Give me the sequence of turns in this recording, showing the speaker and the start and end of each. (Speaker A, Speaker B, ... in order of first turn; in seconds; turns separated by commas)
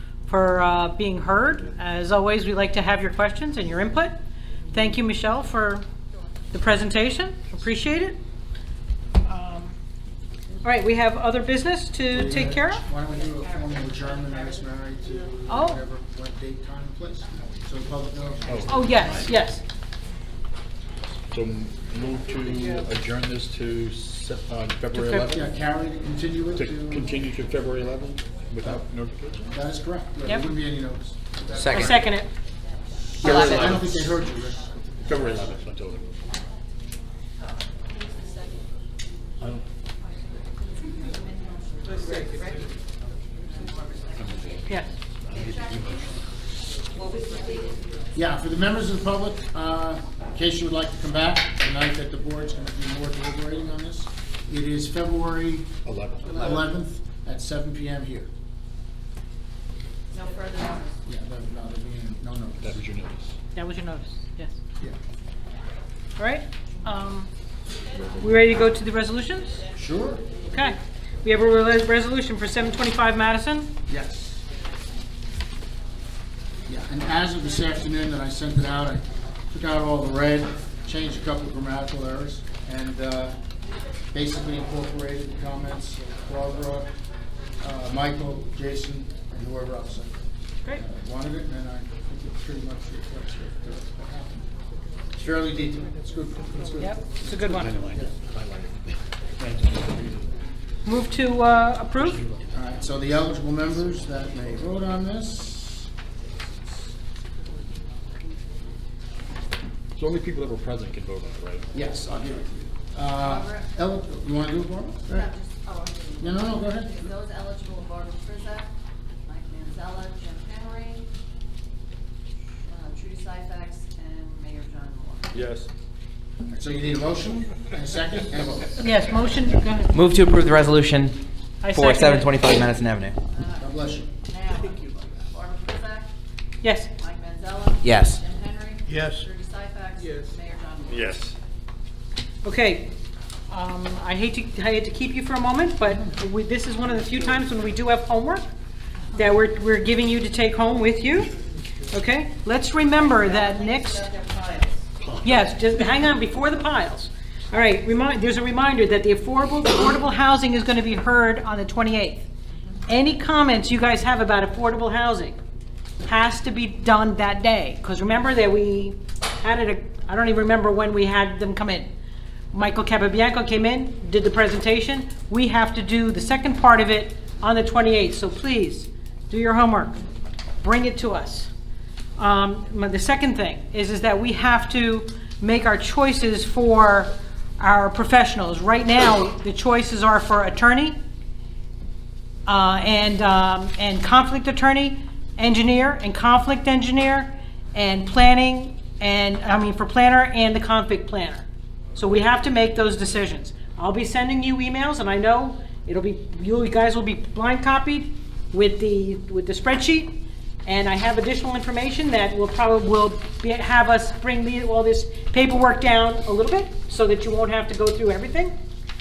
Speaker A: 0.3-4.2, Speaker A: 4.7-5.8, Speaker A: 6.5-8.2, Speaker A: 9.2-9.7, Speaker A: 10.6-12.8, Speaker B: 12.1-18.9, Speaker C: 13.0-15.2, Speaker A: 15.5-15.8, Speaker C: 17.2-19.3, Speaker D: 18.5-19.3, Speaker A: 18.7-19.6, Speaker D: 21.3-25.5, Speaker A: 24.9-25.3, Speaker B: 25.2-27.1, Speaker D: 26.6-29.5, Speaker B: 29.4-32.0, Speaker E: 31.6-32.0, Speaker A: 31.7-32.3, Speaker C: 33.1-35.5, Speaker B: 33.2-35.2, Speaker E: 33.2-33.5, Speaker D: 33.2-34.2, Speaker D: 35.0-36.2, Speaker C: 37.8-38.6, Speaker C: 40.8-42.8, Speaker C: 43.4-44.2, Speaker D: 44.1-46.3, Speaker C: 46.9-47.8, Speaker B: 48.1-55.7, Speaker D: 55.9-56.7, Speaker B: 56.3-58.3, Speaker C: 60.1-61.0, Speaker B: 61.1-62.8, Speaker D: 62.6-63.4, Speaker A: 63.5-64.6, Speaker A: 66.2-67.3, Speaker A: 68.2-69.7, Speaker B: 69.7-70.3, Speaker A: 70.5-73.7, Speaker B: 73.9-74.4, Speaker B: 76.7-83.4, Speaker B: 84.1-86.9, Speaker B: 87.6-90.1, Speaker B: 90.7-94.5, Speaker B: 95.2-98.1, Speaker A: 96.8-97.7, Speaker D: 97.5-100.3, Speaker A: 100.8-102.2, Speaker D: 102.0-102.5, Speaker B: 102.5-105.9, Speaker D: 110.0-111.7, Speaker B: 111.7-115.3, Speaker C: 113.2-113.7, Speaker C: 115.1-118.7, Speaker B: 116.2-117.1, Speaker C: 119.3-121.1, Speaker C: 122.7-125.3, Speaker D: 125.3-125.7, Speaker B: 126.5-128.9, Speaker A: 128.8-129.9, Speaker E: 129.9-133.2, Speaker A: 131.6-132.4, Speaker C: 133.3-136.1, Speaker B: 133.6-134.1, Speaker A: 136.6-136.9, Speaker C: 137.0-141.2, Speaker E: 137.8-138.2, Speaker D: 138.9-139.2, Speaker D: 140.9-141.3, Speaker A: 142.4-142.9, Speaker A: 143.5-148.5, Speaker A: 149.1-151.3, Speaker A: 151.9-154.1, Speaker C: 153.0-154.8, Speaker D: 155.0-155.4, Speaker A: 155.2-162.3, Speaker A: 162.9-165.4, Speaker A: 166.0-171.9, Speaker A: 172.5-180.0, Speaker A: 180.6-181.5, Speaker A: 182.2-191.0, Speaker A: 192.5-218.6